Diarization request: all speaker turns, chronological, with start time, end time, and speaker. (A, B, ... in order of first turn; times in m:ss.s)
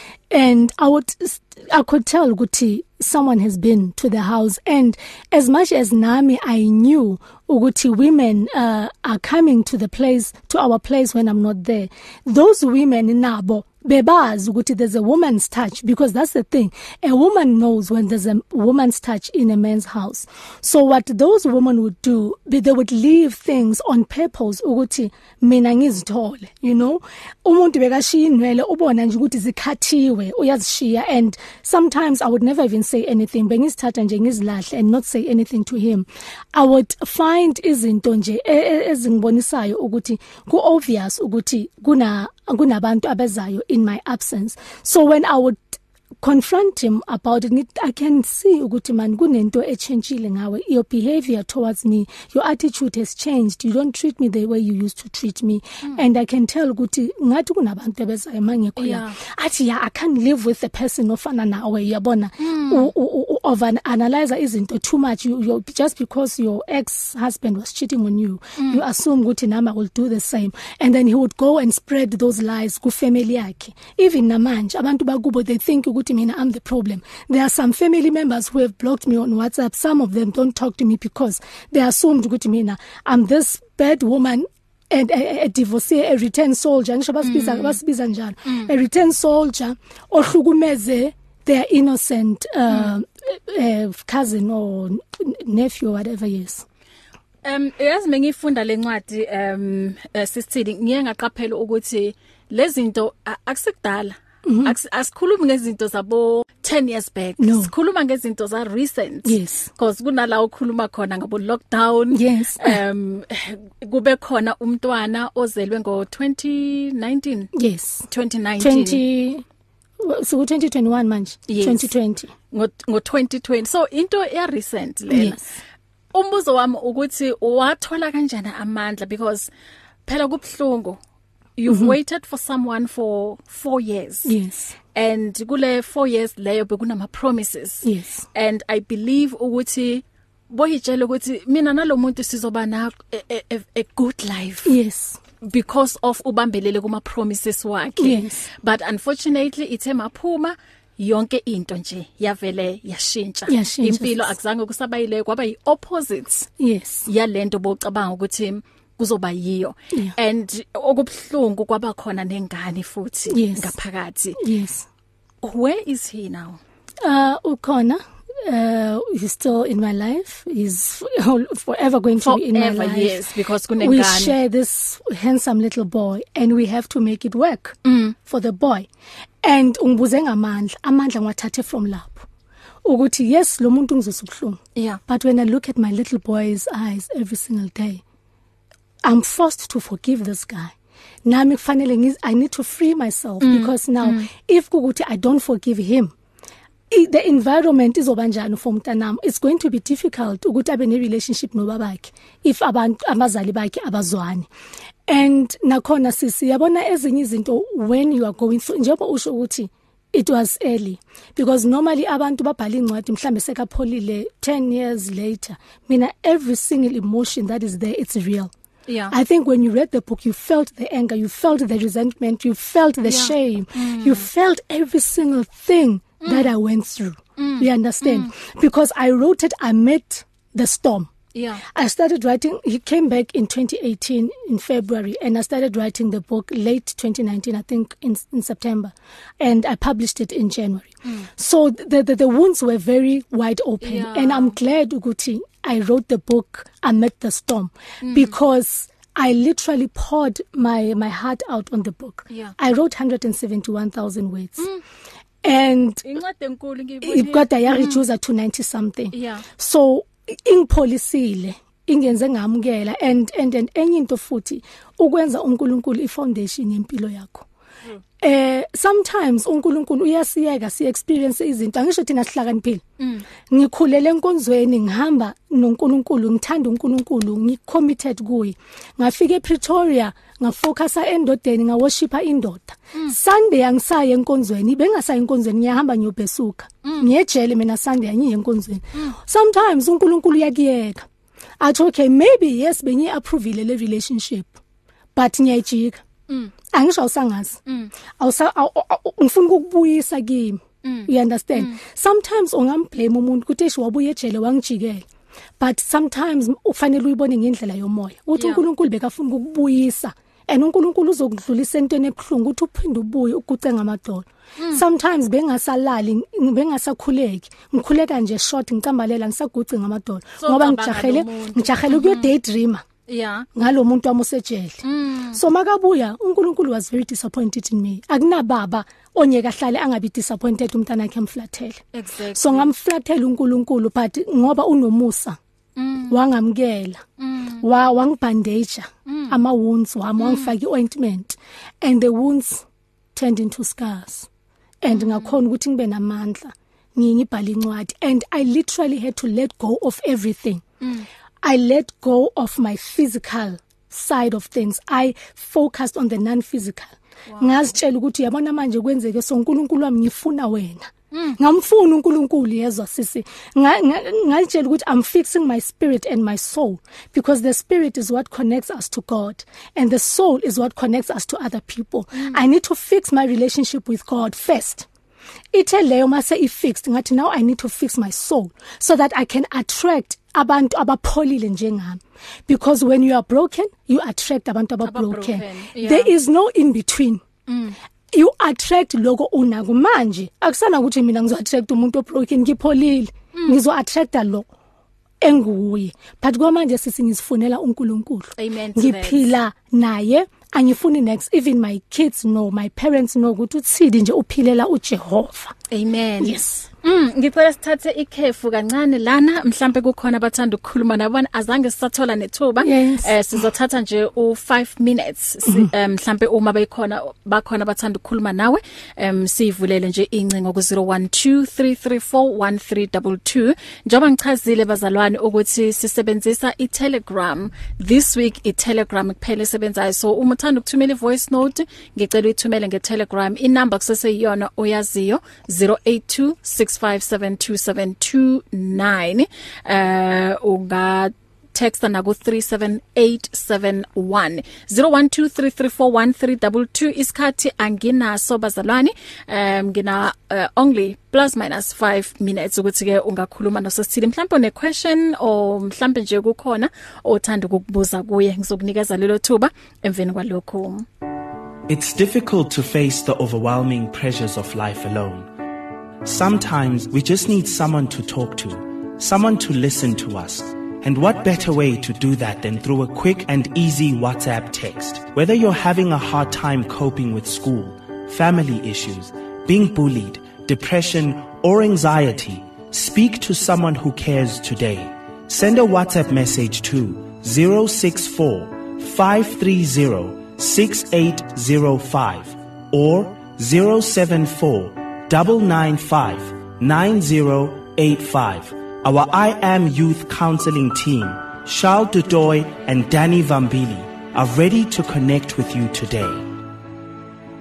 0:00.3-1:36.6 A
0:58.8-0:59.2 B
1:02.4-1:02.9 B
1:27.2-1:27.8 B
1:37.4-1:57.5 B
1:44.4-1:44.8 A
1:47.4-1:47.7 A
1:49.2-1:49.7 A
1:52.1-1:52.8 A
1:57.6-1:58.1 A
1:58.1-1:59.0 B
1:58.6-1:59.4 A
2:00.0-2:02.3 A
2:01.5-2:01.9 B
2:02.5-2:05.4 B
2:05.1-2:05.4 A
2:06.1-2:09.5 B
2:10.0-2:11.0 B
2:11.6-2:14.3 B
2:11.6-2:12.0 A
2:14.2-2:14.7 A
2:14.9-2:24.7 B
2:17.8-2:18.2 A
2:24.6-2:25.2 A
2:25.4-2:36.5 B
2:28.0-2:28.4 A
2:33.5-2:34.3 A
2:36.6-2:37.1 A
2:37.1-2:44.4 B
2:43.3-2:43.7 A
2:44.4-2:44.8 A
2:45.4-2:46.6 B
2:47.0-2:53.2 A
2:52.2-2:54.3 B
2:53.8-2:58.9 A
2:57.8-2:58.1 B
2:59.4-3:02.3 A
3:02.8-3:08.0 A
3:09.0-3:16.1 A
3:13.4-3:14.2 B
3:16.9-3:24.5 A
3:25.1-3:38.5 A
3:38.9-3:39.1 B
3:39.1-3:51.1 A
3:43.0-3:44.3 B
3:46.2-3:46.5 B
3:47.4-3:48.3 B
3:51.3-3:51.6 B
3:51.7-4:14.7 A
4:03.8-4:04.6 B
4:08.0-4:08.3 B
4:15.4-4:16.0 A
4:16.0-4:18.0 B
4:17.0-4:27.4 A
4:19.1-4:19.4 B
4:28.2-4:32.8 A
4:33.0-4:33.2 B
4:33.5-4:51.0 A
4:46.8-4:47.1 B
4:51.6-4:54.6 A
4:55.1-4:56.0 A
4:56.7-4:57.6 A
4:58.2-5:05.0 A
5:00.8-5:01.8 B
5:05.6-5:22.8 A
5:08.4-5:08.6 B
5:14.6-5:14.8 B
5:20.4-5:22.3 B
5:23.1-5:23.4 B
5:23.5-5:31.8 A
5:24.8-5:25.4 B
5:31.9-5:32.7 B
5:32.3-5:35.4 A
5:35.8-5:36.2 B
5:36.1-5:37.0 A
5:37.2-5:37.6 B
5:37.6-5:44.3 A
5:39.1-5:39.4 B
5:40.2-5:40.5 B
5:44.8-5:50.6 A
5:44.9-5:45.4 B
5:51.4-6:14.9 A
6:01.1-6:01.4 B
6:15.5-6:27.2 A
6:24.8-6:26.1 B
6:27.5-6:27.8 B
6:28.1-6:34.5 A
6:35.2-6:45.5 A
6:38.4-6:39.3 B
6:45.7-7:40.8 B
6:46.2-6:46.7 A
6:52.6-6:53.4 A
6:55.4-6:55.7 A
7:41.7-7:45.3 C
7:46.0-8:26.3 C